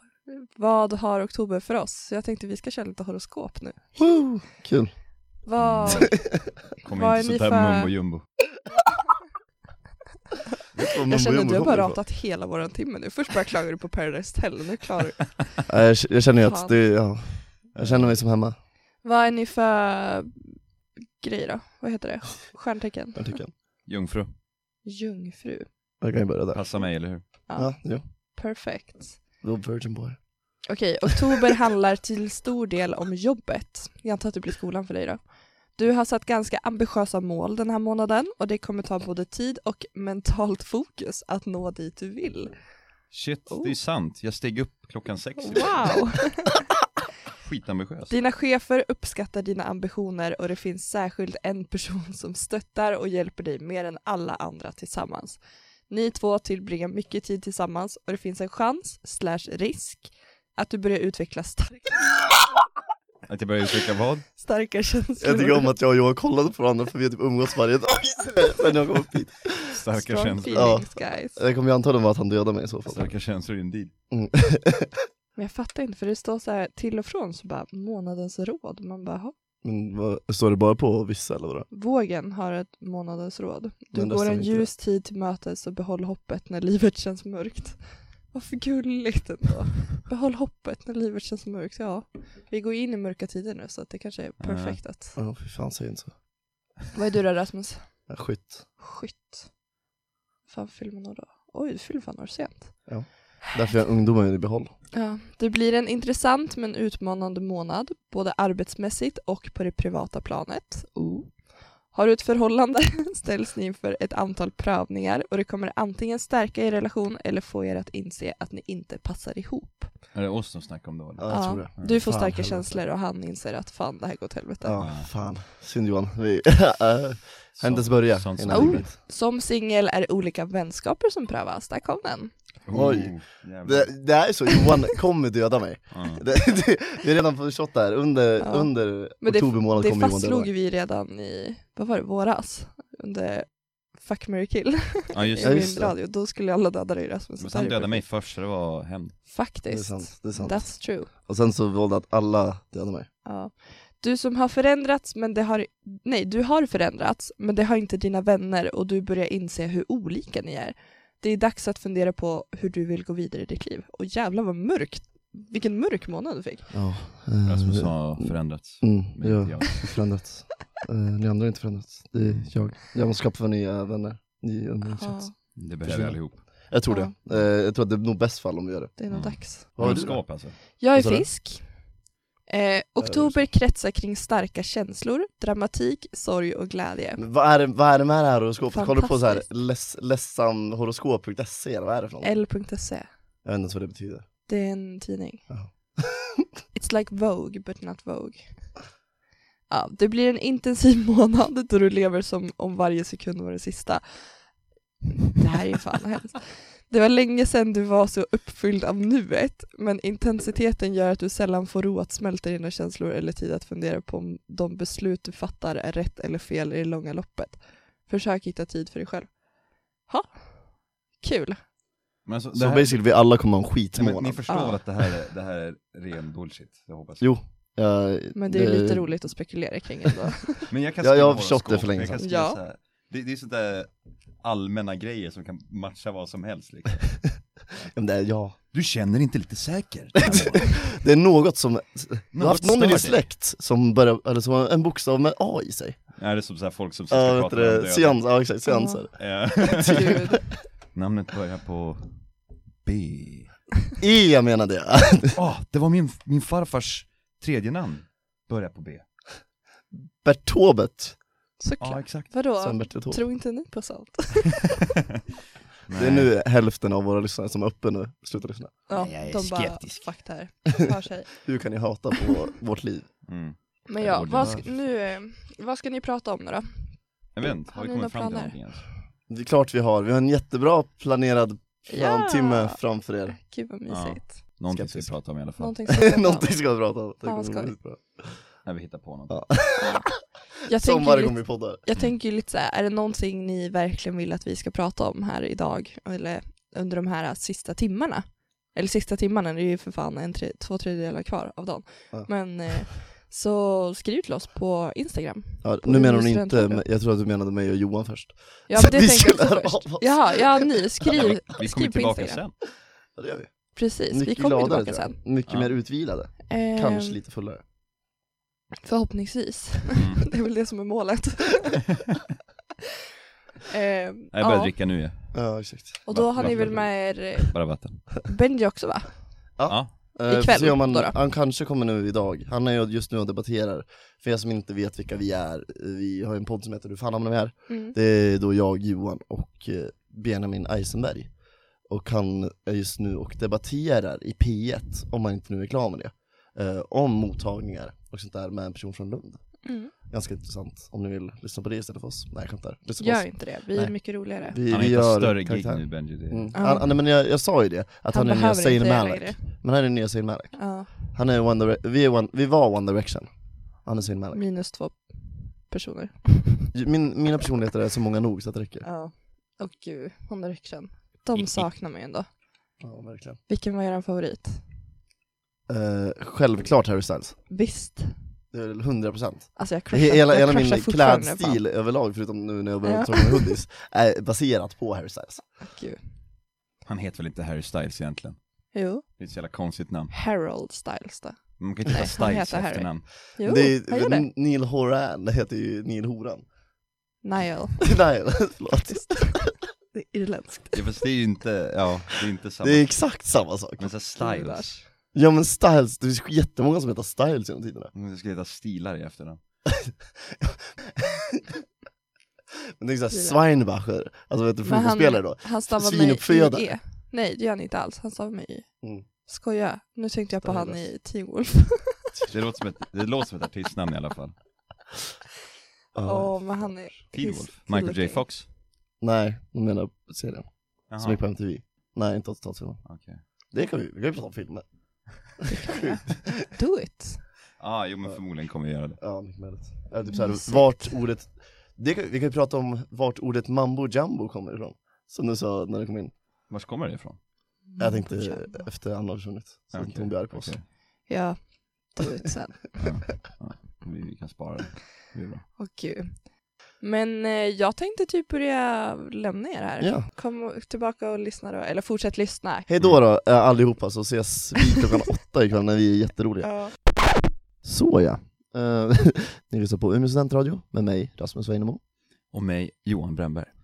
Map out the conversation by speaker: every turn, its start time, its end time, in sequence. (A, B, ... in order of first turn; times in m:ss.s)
0:00.2-0:04.0 A
0:04.0-0:04.9 B
0:05.4-0:06.2 A
0:05.6-0:06.2 C
0:06.8-0:08.2 C
0:06.9-0:07.9 A
0:10.7-0:12.0 B
0:11.1-0:15.6 A
0:15.7-0:18.5 B
0:16.4-0:16.8 A
0:17.7-0:18.1 C
0:19.0-0:20.6 A
0:21.1-0:23.4 A
0:23.1-0:23.5 B
0:23.9-0:24.3 C
0:24.8-0:25.7 A
0:26.0-0:26.6 B
0:26.5-0:27.2 C
0:27.5-0:29.2 A
0:27.6-0:28.0 B
0:29.4-0:30.2 B
0:30.7-0:42.6 A
0:43.1-0:45.8 C
0:43.5-0:43.7 A
0:45.4-0:46.5 A
0:47.4-0:48.1 C
0:48.1-1:02.2 A
1:03.3-1:04.3 C
1:04.4-1:05.7 A
1:05.2-1:09.7 B
1:09.7-1:10.8 C
1:09.9-1:11.4 A
1:10.5-1:13.1 B
1:12.8-1:13.9 C
1:14.1-1:15.0 B
1:15.4-1:19.3 A
1:19.6-1:21.7 B
1:21.7-1:35.2 A
1:23.9-1:24.7 B
1:34.4-1:34.8 C
1:35.2-1:36.1 B
1:36.9-1:37.9 A
1:38.1-1:38.6 B
1:38.8-1:39.5 A
1:40.5-1:42.9 A
1:42.9-1:44.7 B
1:44.9-1:59.9 A
2:00.1-2:02.0 C
2:01.2-2:02.8 B
2:01.3-2:04.8 A
2:04.6-2:08.9 B
2:04.8-2:05.1 C
2:07.6-2:08.8 C
2:08.5-2:12.3 A
2:12.6-2:14.1 C
2:12.7-2:20.5 B
2:15.9-2:16.2 C
2:18.4-2:28.1 A
2:25.1-2:25.8 C
2:25.4-2:26.0 B
2:27.4-2:29.2 C
2:29.2-2:31.1 A
2:29.7-2:33.1 B
2:33.2-2:46.7 A
2:46.7-3:01.3 B
2:47.4-2:50.0 C
2:52.2-2:52.5 C
2:54.8-2:55.3 A
2:55.6-2:56.7 C
2:56.9-2:57.1 A
2:59.0-3:00.0 A
2:59.1-3:00.6 C
3:00.8-3:01.7 A
3:02.5-3:07.2 A
3:03.0-3:03.4 B
3:07.2-3:12.3 B
3:08.7-3:09.4 A
3:12.2-3:13.1 A
3:13.4-3:14.2 B
3:14.5-3:15.4 A
3:15.5-3:16.4 B
3:16.7-3:18.8 A
3:19.7-3:24.4 A
3:25.3-3:39.4 A
3:40.0-3:41.6 A
3:42.2-3:43.0 C
3:42.5-3:44.4 B
3:43.9-3:47.3 C
3:44.5-3:44.8 A
3:47.2-3:49.1 B
3:48.3-3:50.7 A
3:50.7-3:53.9 C
3:51.0-3:52.2 B
3:52.2-3:52.6 A
3:54.4-3:57.1 C
3:57.9-3:58.6 B
3:58.7-4:00.9 C
4:00.3-4:06.0 B
4:02.3-4:03.3 C
4:06.2-4:08.3 C
4:07.1-4:10.1 B
4:08.7-4:09.0 A
4:09.2-4:10.4 C
4:09.6-4:10.4 A
4:10.9-4:12.1 C
4:12.8-4:13.5 C
4:14.0-4:15.4 B
4:15.4-4:19.0 C
4:20.2-4:21.2 B
4:21.6-4:24.8 A
4:21.8-4:22.3 C
4:22.6-4:23.2 B
4:25.9-4:26.3 C
4:25.9-4:28.7 B
4:28.9-4:31.3 A
4:28.9-4:30.1 C
4:31.4-4:33.1 B
4:33.2-4:34.6 C
4:33.9-4:36.7 A
4:34.4-4:34.6 B
4:37.3-4:38.8 C
4:37.7-4:38.5 A
4:39.3-4:43.4 B
4:41.9-4:44.4 A
4:43.9-4:45.7 C
4:44.7-4:45.1 B
4:45.6-4:46.6 A
4:45.9-4:48.4 B
4:47.2-4:47.7 A
4:48.6-4:49.4 C
4:49.3-4:50.0 B
4:49.8-4:50.1 A
4:50.6-5:06.8 A
4:50.7-4:51.8 B
5:05.6-5:10.7 B
5:08.7-5:12.4 A
5:11.1-5:12.5 C
5:13.1-5:17.6 B
5:13.7-5:15.2 A
5:15.5-5:15.7 C
5:16.5-5:17.2 A
5:18.8-5:21.8 A
5:19.9-5:20.3 C
5:23.7-5:24.7 A
5:24.3-5:25.3 C
5:25.3-5:26.9 B
5:26.0-5:29.1 A
5:26.1-5:28.2 C
5:29.6-5:41.3 B
5:30.2-5:31.2 A
5:37.7-5:37.9 A
5:41.9-5:49.4 B
5:49.6-5:49.9 A
5:50.0-5:53.9 B
5:53.0-5:54.6 A
5:54.4-6:03.3 B
5:54.7-5:56.5 C
5:56.5-5:56.9 A
5:58.1-5:59.4 A
6:00.6-6:00.9 A
6:03.8-6:04.4 B
6:04.3-6:06.7 A
6:06.7-6:08.8 B
6:08.8-6:12.3 A
6:11.4-6:11.6 C
6:12.8-6:13.4 B
6:13.5-6:14.6 A
6:15.7-6:17.4 B
6:17.5-6:18.1 A
6:18.5-6:25.4 B
6:19.6-6:21.6 A
6:22.8-6:23.5 A
6:25.6-6:26.0 A
6:26.8-6:28.4 C
6:28.7-6:29.0 A
6:29.1-6:30.1 C
6:30.1-6:34.3 A
6:31.6-6:33.1 C
6:33.4-6:36.4 B
6:37.2-6:37.9 A
6:37.8-6:39.5 B
6:38.9-6:40.9 A
6:40.7-6:43.1 C
6:42.6-6:43.9 B
6:43.8-6:44.8 C
6:44.2-6:44.8 A
6:45.1-6:47.9 B
6:47.9-6:49.4 C
6:49.6-6:51.6 B
6:52.8-6:56.7 B
6:53.1-6:53.4 A
6:54.6-6:58.7 A
6:59.2-7:02.1 A
7:00.4-7:00.8 B
7:02.3-7:04.4 C
7:05.9-7:06.8 B
7:06.0-7:08.2 A
7:07.1-7:08.4 C
7:09.0-7:12.8 B
7:10.9-7:11.2 C
7:12.8-7:13.2 C
7:13.5-7:14.6 B
7:15.4-7:16.4 B
7:15.5-7:17.2 A
7:17.6-7:19.0 C
7:19.0-7:26.1 B
7:20.1-7:20.9 A
7:26.5-7:27.2 C
7:27.7-7:28.6 A
7:27.8-7:30.6 B
7:29.7-7:30.6 C
7:31.1-7:32.7 A
7:32.8-7:35.4 C
7:35.6-7:42.7 A
7:39.8-7:40.1 B
7:42.7-7:46.7 B
7:46.4-7:46.7 A
7:47.6-7:51.8 B
7:52.3-7:53.5 C